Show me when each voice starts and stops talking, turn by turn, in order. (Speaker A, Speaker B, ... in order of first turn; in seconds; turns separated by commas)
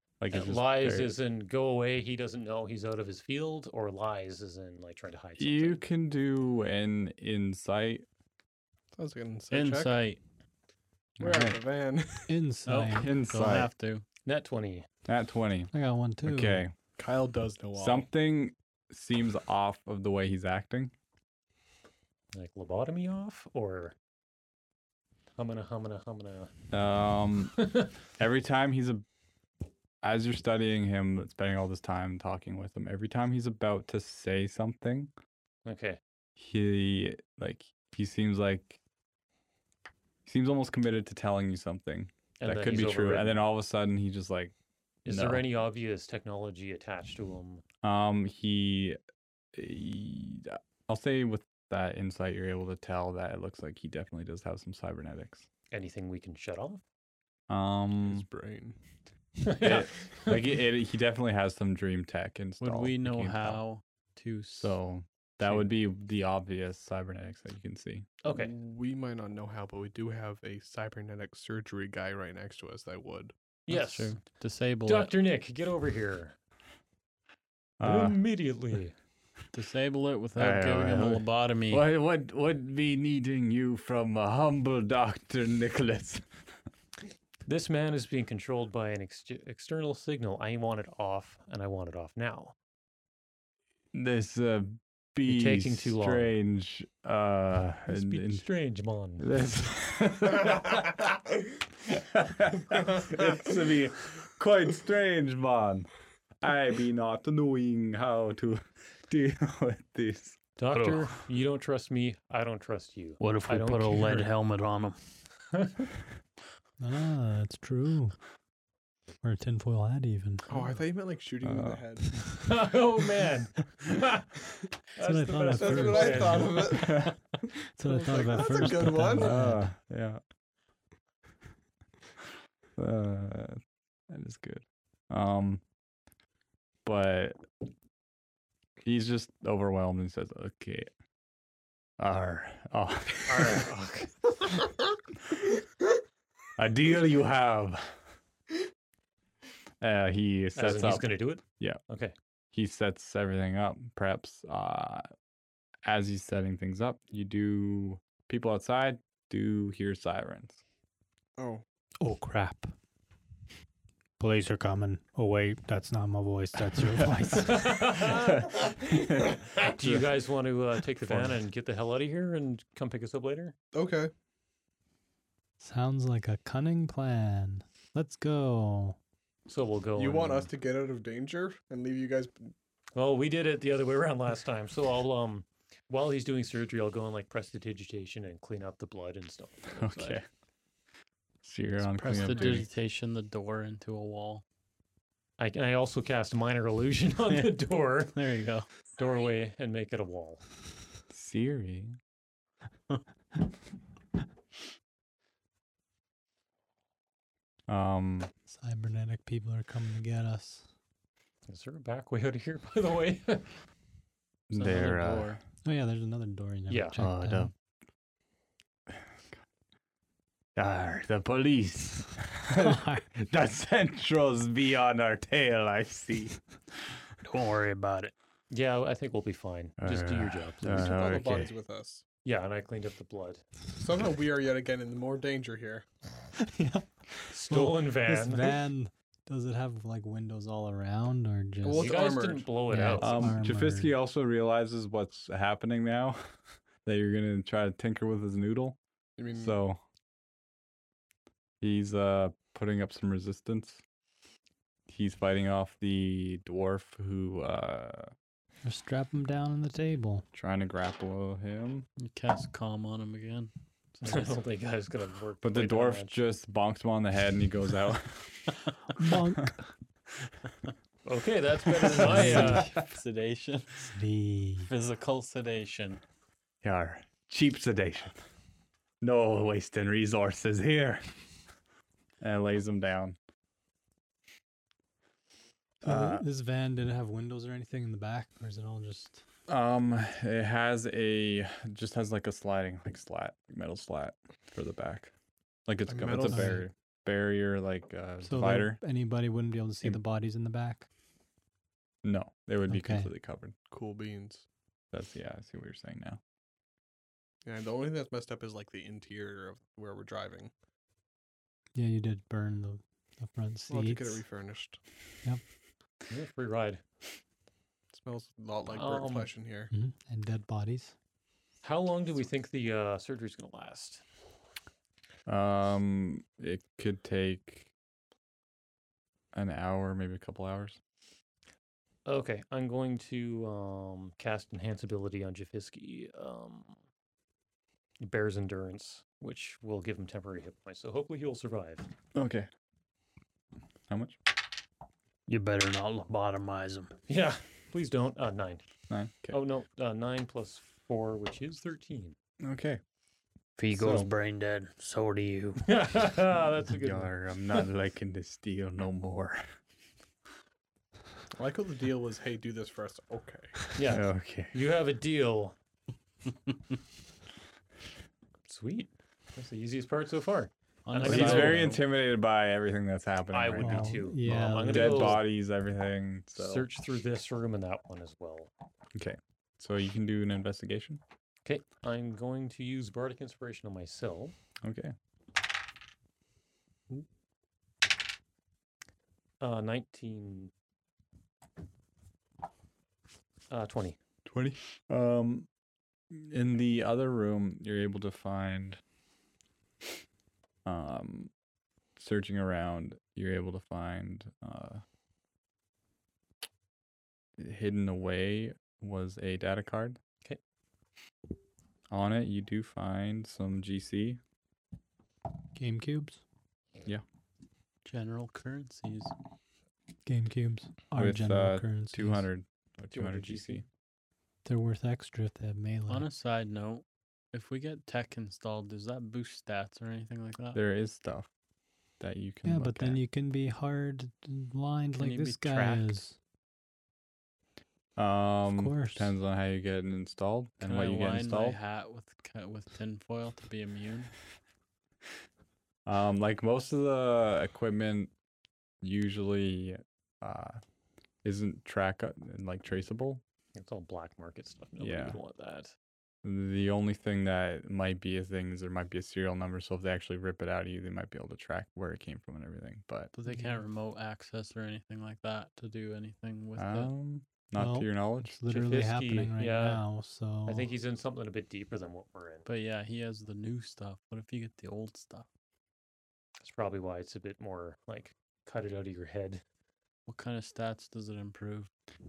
Speaker A: 0.2-1.1, Speaker B: 0.3-5.8, Speaker A: 5.4-8.1, Speaker C: 8.9-10.1, Speaker D: 9.5-10.2, Speaker A: 11.2-11.6, Speaker C: 11.2-12.3, Speaker E: 12.3-13.1, Speaker D: 12.7-14.0, Speaker A: 13.0-13.7, Speaker B: 14.2-14.9, Speaker A: 15.1-15.7, Speaker E: 15.7-16.6, Speaker A: 16.2-16.7, Speaker C: 17.0-18.1, Speaker A: 17.8-20.9, Speaker B: 22.3-24.0, Speaker B: 25.4-26.5, Speaker A: 26.7-27.6, Speaker B: 27.6-27.9, Speaker A: 28.2-29.1, Speaker A: 30.0-35.1, Speaker B: 35.6-36.0, Speaker A: 36.4-38.8, Speaker A: 40.3-44.5, Speaker B: 42.4-43.4, Speaker B: 45.0-47.6, Speaker A: 45.1-45.4, Speaker A: 47.8-49.0, Speaker A: 49.5-55.5, Speaker B: 55.7-56.8, Speaker A: 57.5-58.3, Speaker C: 58.0-58.8, Speaker B: 59.4-60.4, Speaker A: 59.6-63.6, Speaker D: 62.6-64.8, Speaker A: 64.6-68.1, Speaker B: 68.2-68.5, Speaker C: 68.3-73.3, Speaker B: 73.7-74.3, Speaker D: 73.7-75.1, Speaker B: 74.8-76.3, Speaker A: 77.8-78.2, Speaker B: 77.8-79.0, Speaker D: 79.5-81.8, Speaker A: 80.4-86.3, Speaker B: 87.5-92.5, Speaker A: 93.9-98.4, Speaker B: 95.3-96.3, Speaker B: 97.9-99.3, Speaker A: 99.2-101.2, Speaker A: 101.8-105.9, Speaker A: 106.4-110.4, Speaker B: 110.6-114.3, Speaker F: 110.7-111.1, Speaker F: 113.2-115.0, Speaker B: 115.5-115.9, Speaker E: 116.8-118.2, Speaker E: 119.2-120.6, Speaker C: 120.5-122.2, Speaker A: 121.4-121.8, Speaker B: 122.3-124.3, Speaker B: 125.0-126.9, Speaker E: 125.0-126.8, Speaker C: 125.5-127.1, Speaker A: 126.8-127.1, Speaker E: 127.7-129.7, Speaker C: 127.8-129.4, Speaker A: 129.2-130.2, Speaker A: 132.8-135.6, Speaker A: 136.8-137.4, Speaker A: 138.8-140.9, Speaker A: 142.0-143.7, Speaker B: 143.2-144.3, Speaker A: 146.6-147.9, Speaker A: 149.8-151.8, Speaker B: 150.6-152.1, Speaker A: 152.5-155.1, Speaker A: 155.8-160.6, Speaker C: 161.4-161.6, Speaker E: 162.0-162.7, Speaker E: 164.2-167.8, Speaker B: 167.3-168.5, Speaker A: 168.0-170.1, Speaker B: 169.6-173.6, Speaker A: 171.1-171.4, Speaker C: 173.7-174.1, Speaker E: 175.6-179.0, Speaker B: 179.5-180.5, Speaker C: 180.0-182.5, Speaker B: 182.9-190.2, Speaker A: 189.8-190.3, Speaker A: 191.4-192.7, Speaker D: 191.9-194.4, Speaker B: 195.4-198.1, Speaker D: 198.1-198.7, Speaker B: 198.9-200.4, Speaker A: 201.1-202.0, Speaker A: 207.7-208.3, Speaker E: 208.5-210.7, Speaker B: 211.5-213.6, Speaker A: 214.5-215.4, Speaker D: 214.5-215.4, Speaker E: 215.6-217.5, Speaker B: 216.7-217.0, Speaker A: 217.0-217.5, Speaker A: 220.6-226.4, Speaker E: 222.5-223.1, Speaker F: 227.2-228.1, Speaker B: 228.5-230.9, Speaker A: 229.8-231.5, Speaker C: 230.6-232.0, Speaker B: 232.2-233.4, Speaker C: 233.8-235.9, Speaker E: 236.4-241.9, Speaker B: 237.3-238.6, Speaker C: 241.6-242.5, Speaker B: 241.8-243.3, Speaker E: 242.7-243.9, Speaker A: 243.0-246.2, Speaker A: 246.8-248.8, Speaker C: 249.2-249.6, Speaker A: 249.3-249.8, Speaker A: 251.6-253.8, Speaker A: 254.9-258.1, Speaker E: 258.6-260.3, Speaker A: 260.3-261.9, Speaker D: 262.0-264.4, Speaker B: 264.0-266.2, Speaker A: 265.4-268.6, Speaker E: 269.0-269.6, Speaker B: 271.1-272.7, Speaker D: 272.0-274.0, Speaker E: 272.1-272.6, Speaker E: 273.9-274.7, Speaker D: 274.7-276.0, Speaker A: 276.6-278.2, Speaker A: 279.0-281.1, Speaker A: 282.2-283.2, Speaker E: 285.8-289.2, Speaker A: 285.8-286.3, Speaker A: 289.5-295.1, Speaker A: 295.7-298.8, Speaker C: 295.9-296.6, Speaker E: 296.3-296.6, Speaker E: 298.2-300.9, Speaker A: 302.0-303.6, Speaker E: 302.7-303.1, Speaker C: 303.7-304.4, Speaker A: 304.9-306.2, Speaker C: 307.4-310.5, Speaker E: 311.8-314.2, Speaker C: 313.7-314.8, Speaker B: 316.1-316.8, Speaker C: 317.9-319.7, Speaker B: 318.7-319.3, Speaker E: 319.7-320.9, Speaker B: 321.6-324.0, Speaker A: 325.3-327.7, Speaker A: 329.3-330.8, Speaker B: 332.1-336.8, Speaker B: 338.0-341.9, Speaker A: 342.1-342.5, Speaker A: 343.9-344.2, Speaker F: 345.3-346.9, Speaker B: 347.1-348.6, Speaker A: 348.9-349.4, Speaker B: 349.3-352.2, Speaker A: 352.4-352.8, Speaker F: 353.6-355.6, Speaker A: 353.7-354.1, Speaker B: 355.6-357.7, Speaker A: 356.7-359.4, Speaker C: 361.4-363.6, Speaker B: 363.8-365.6, Speaker A: 363.9-364.6, Speaker B: 368.5-371.8, Speaker D: 370.9-371.8, Speaker A: 371.0-376.7, Speaker B: 373.3-375.2, Speaker E: 373.6-375.2, Speaker B: 376.4-378.5, Speaker A: 378.9-381.0, Speaker B: 381.4-384.4, Speaker A: 384.6-384.9, Speaker B: 389.4-390.5, Speaker B: 393.5-394.0, Speaker A: 394.3-395.5, Speaker A: 396.1-398.8, Speaker A: 400.6-401.3, Speaker A: 402.0-404.8, Speaker A: 407.4-410.0, Speaker A: 411.9-414.2, Speaker E: 415.6-416.2, Speaker D: 417.9-419.1, Speaker E: 420.1-422.3, Speaker A: 420.9-423.6, Speaker B: 422.9-423.6, Speaker E: 424.4-426.1, Speaker D: 425.9-430.6, Speaker A: 430.6-431.3, Speaker A: 432.0-433.0, Speaker E: 432.4-436.2, Speaker D: 435.0-436.0, Speaker A: 438.0-441.6, Speaker E: 438.5-439.1, Speaker D: 440.6-444.1, Speaker A: 445.9-448.1, Speaker A: 448.8-450.6, Speaker A: 451.2-453.2, Speaker B: 453.6-455.7, Speaker A: 454.8-455.2, Speaker A: 456.2-463.1, Speaker D: 463.1-466.9, Speaker E: 463.3-463.6, Speaker A: 466.6-468.4, Speaker E: 467.6-470.7, Speaker B: 468.5-469.9, Speaker B: 470.5-472.5, Speaker D: 472.4-475.3, Speaker B: 476.4-479.4, Speaker D: 480.1-481.7